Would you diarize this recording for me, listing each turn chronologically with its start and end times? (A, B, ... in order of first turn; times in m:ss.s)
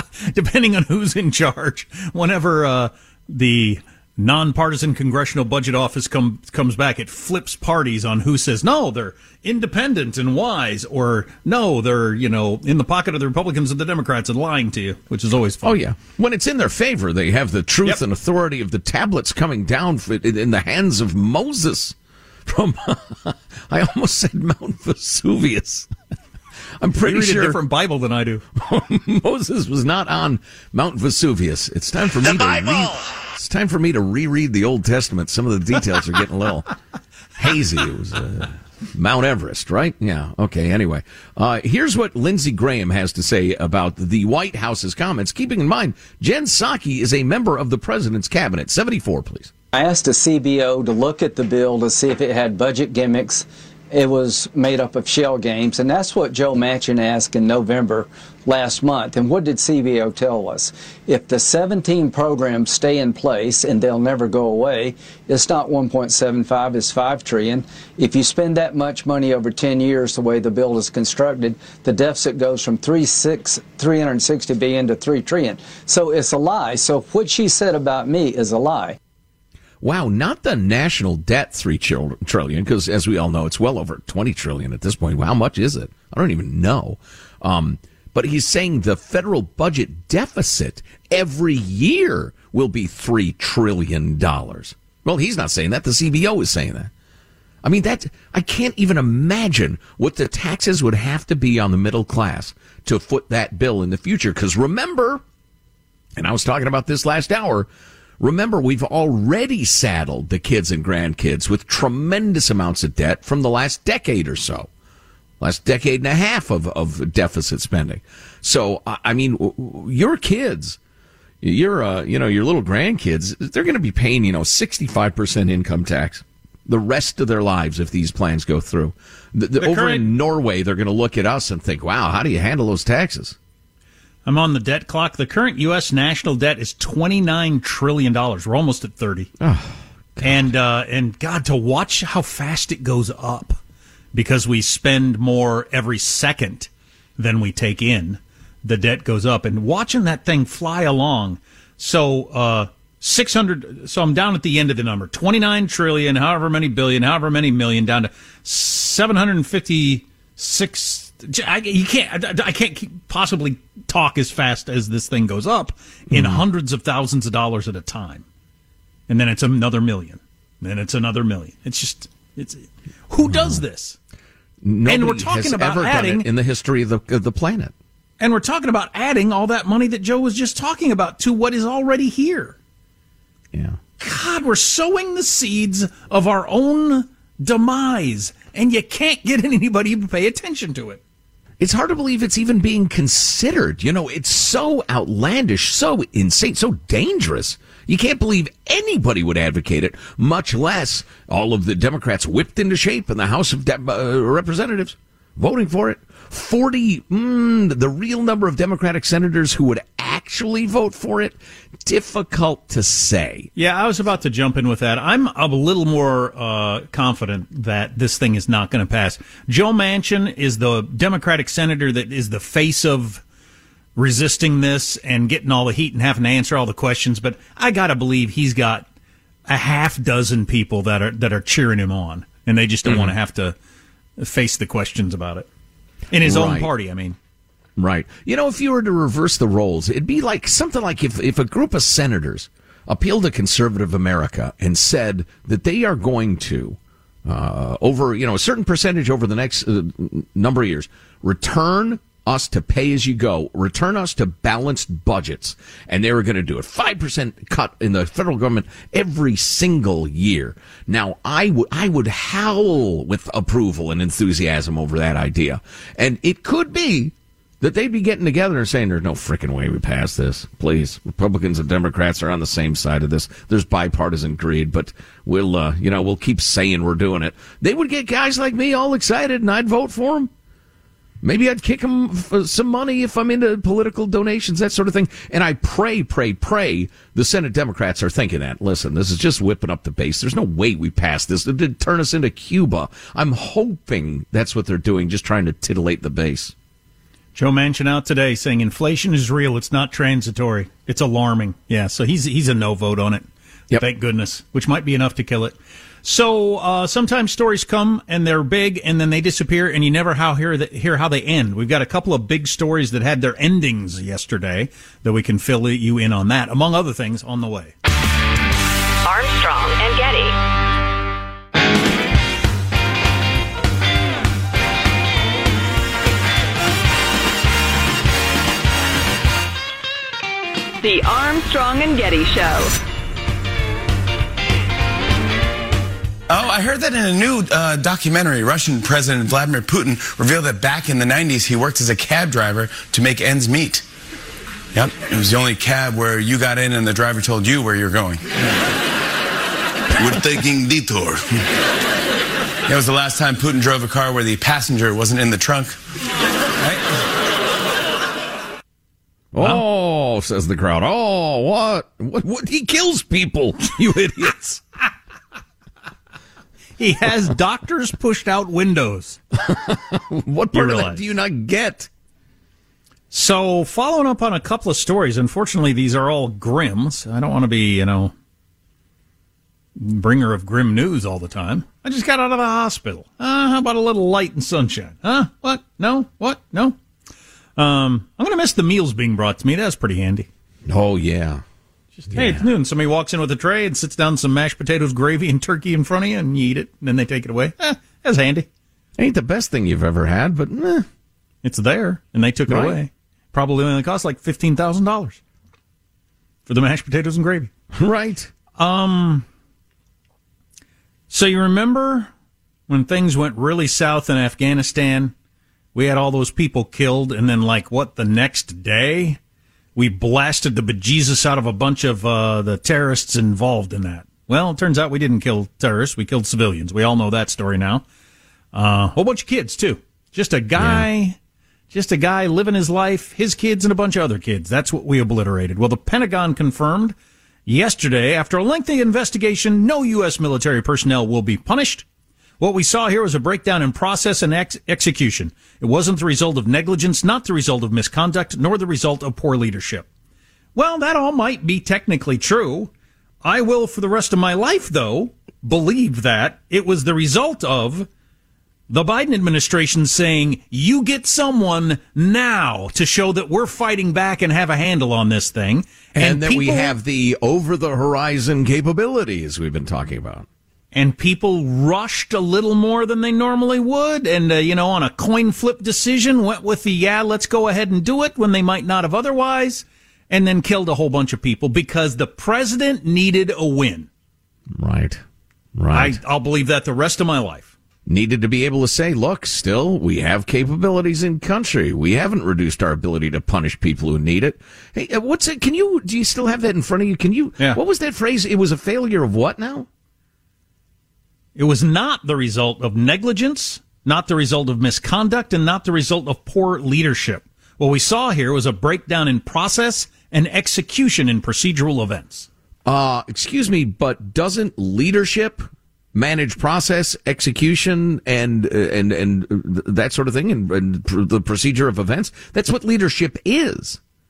0:00.3-0:15.8 A
0:15.6-0:25.9 B
0:26.8-0:27.6 B
0:27.0-0:28.4 A
0:28.6-0:36.7 B
0:37.4-0:49.5 B
0:49.7-1:19.0 C
1:19.8-1:36.9 B
1:37.6-1:45.2 B
1:46.2-1:47.7 B
1:48.2-1:54.7 B
1:55.4-2:00.8 B
2:01.4-2:13.4 B
2:09.6-2:10.1 A
2:14.3-2:19.3 A
2:19.4-2:20.5 B
2:20.2-2:23.6 A
2:24.1-2:48.2 A
2:46.1-2:46.4 B
2:49.1-2:54.0 A
2:53.2-2:53.6 B
2:54.6-2:57.7 B
2:54.9-2:56.3 A
2:58.2-3:02.6 A
3:03.5-3:03.8 B
3:04.0-3:11.0 A
3:11.6-3:33.5 B
3:33.6-3:43.2 A
3:44.0-3:48.9 A
3:49.5-3:53.6 A
3:52.8-3:53.1 B
3:54.2-3:55.5 A
3:56.1-3:57.2 A
3:56.2-3:56.7 B
3:57.8-4:40.3 B
4:41.2-4:56.5 B
4:57.4-5:03.3 A
5:03.8-5:17.7 A
5:19.0-5:20.4 D
5:30.8-5:32.8 D
5:36.3-5:43.9 E
5:44.7-5:48.2 E
5:50.0-5:51.3 E
5:52.7-5:55.8 E
5:59.3-6:04.6 B
6:06.8-6:09.2 A
6:09.3-6:11.9 B
6:10.5-6:11.0 A
6:13.1-6:18.1 A
6:19.8-6:26.8 A
6:27.6-6:30.3 A
6:30.7-6:31.4 B
6:32.0-6:38.5 A
6:32.1-6:32.5 B
6:39.0-6:40.9 B
6:41.4-6:45.2 A
6:42.5-6:42.8 B
6:46.5-6:47.5 A
6:47.7-6:48.3 B
6:48.6-6:49.3 A
6:51.1-6:52.1 A
6:52.7-6:55.1 A
6:55.7-6:59.2 A
6:59.8-7:07.8 A
7:08.5-7:11.2 A
7:10.6-7:10.9 B
7:11.7-7:21.8 A
7:22.4-7:29.9 A
7:30.6-7:32.7 A
7:33.2-7:37.9 A
7:38.7-7:46.8 A
7:45.9-7:50.3 B
7:50.7-8:03.9 A
8:04.5-8:05.0 B
8:05.6-8:06.0 B
8:05.7-8:07.5 A
8:07.9-8:19.7 B
8:21.4-8:32.3 A
8:32.7-8:43.8 B